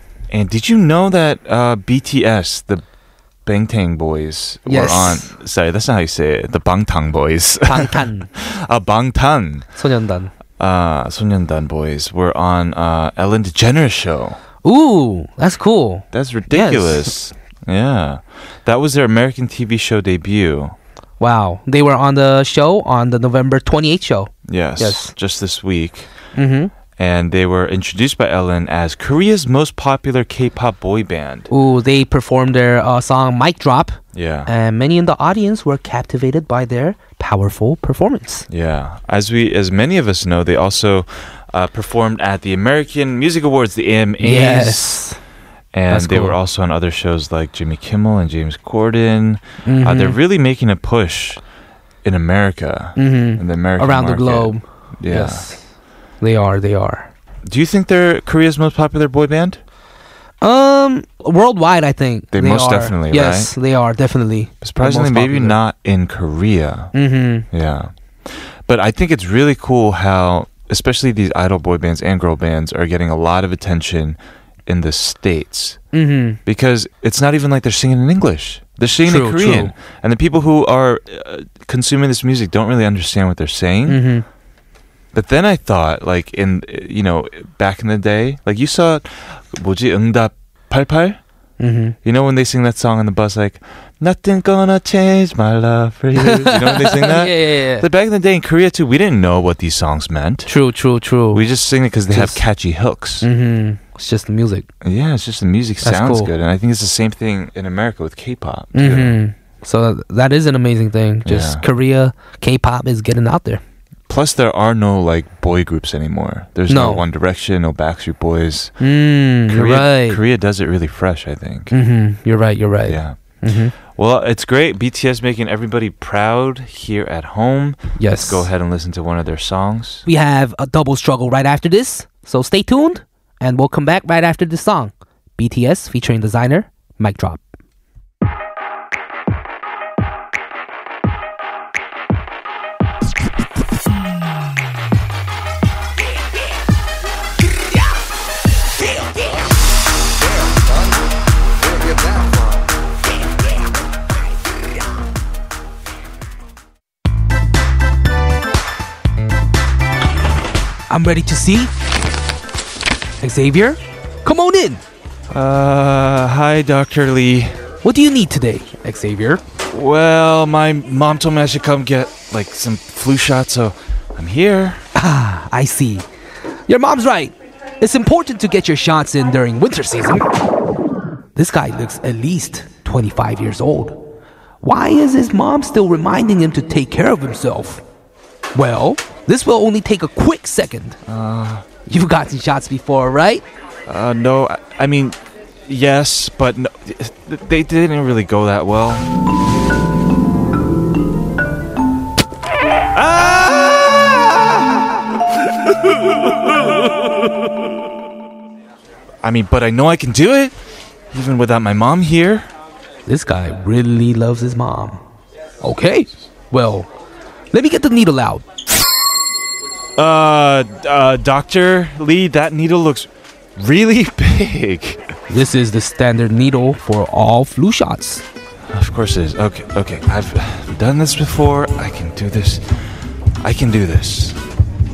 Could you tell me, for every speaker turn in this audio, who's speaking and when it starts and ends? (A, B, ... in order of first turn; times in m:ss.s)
0:00.3-0:02.8 A
0:03.4-0:09.7 A
0:04.6-0:05.3 B
0:07.7-0:08.3 B
0:09.7-0:10.3 B
0:10.6-0:14.4 A
0:14.6-0:17.1 B
0:16.1-0:20.8 A
0:21.2-0:25.1 B
0:24.4-0:26.1 A
0:26.3-0:26.7 B
0:27.0-0:31.5 A
0:31.5-0:38.5 B
0:34.1-0:34.5 A
0:38.5-0:45.0 A
0:44.2-0:45.2 B
0:45.7-0:51.4 A
0:45.9-0:46.4 B
0:49.6-0:50.2 B
0:52.0-0:55.5 A
0:53.0-0:55.6 B
0:56.2-0:57.1 B
0:57.4-0:59.6 A
1:00.4-1:05.6 B
1:02.3-1:03.5 A
1:04.6-1:06.9 A
1:06.9-1:07.5 B
1:07.5-1:15.8 A
1:15.9-1:16.4 B
1:16.4-1:24.0 A
1:19.0-1:19.7 B
1:23.9-1:24.2 B
1:25.1-1:31.2 A
1:31.6-1:32.0 B
1:32.0-1:40.5 A
1:36.2-1:37.9 B
1:40.4-1:41.4 B
1:41.3-1:43.3 A
1:42.1-1:42.4 B
1:43.2-1:44.7 B
1:44.8-1:49.2 A
1:45.8-1:46.3 B
1:48.7-1:53.6 B
1:51.2-1:51.6 A
1:54.1-1:58.7 A
1:56.7-1:57.0 B
1:58.8-2:00.2 B
1:59.5-2:01.7 A
2:01.7-2:03.7 B
2:02.8-2:10.0 A
2:08.0-2:08.5 B
2:10.0-2:17.5 B
2:40.9-2:41.7 B
2:43.2-2:44.8 B
2:45.3-2:47.6 A
2:47.8-2:49.4 B
2:49.7-2:54.8 A
2:54.9-2:56.0 B
2:56.7-3:00.3 B
3:01.4-3:04.0 B
3:04.6-3:07.8 B
3:08.5-3:11.0 B
3:11.0-3:11.6 A
3:11.8-3:13.4 B
3:13.8-3:19.1 A
3:22.9-3:25.0 A
3:25.6-3:26.6 A
3:29.2-3:30.6 A
3:31.1-3:32.5 A
3:33.1-3:35.0 B
3:35.6-3:36.9 B
3:37.5-3:38.4 B
3:40.0-3:45.1 A
3:45.3-3:48.2 B
3:48.7-3:54.4 A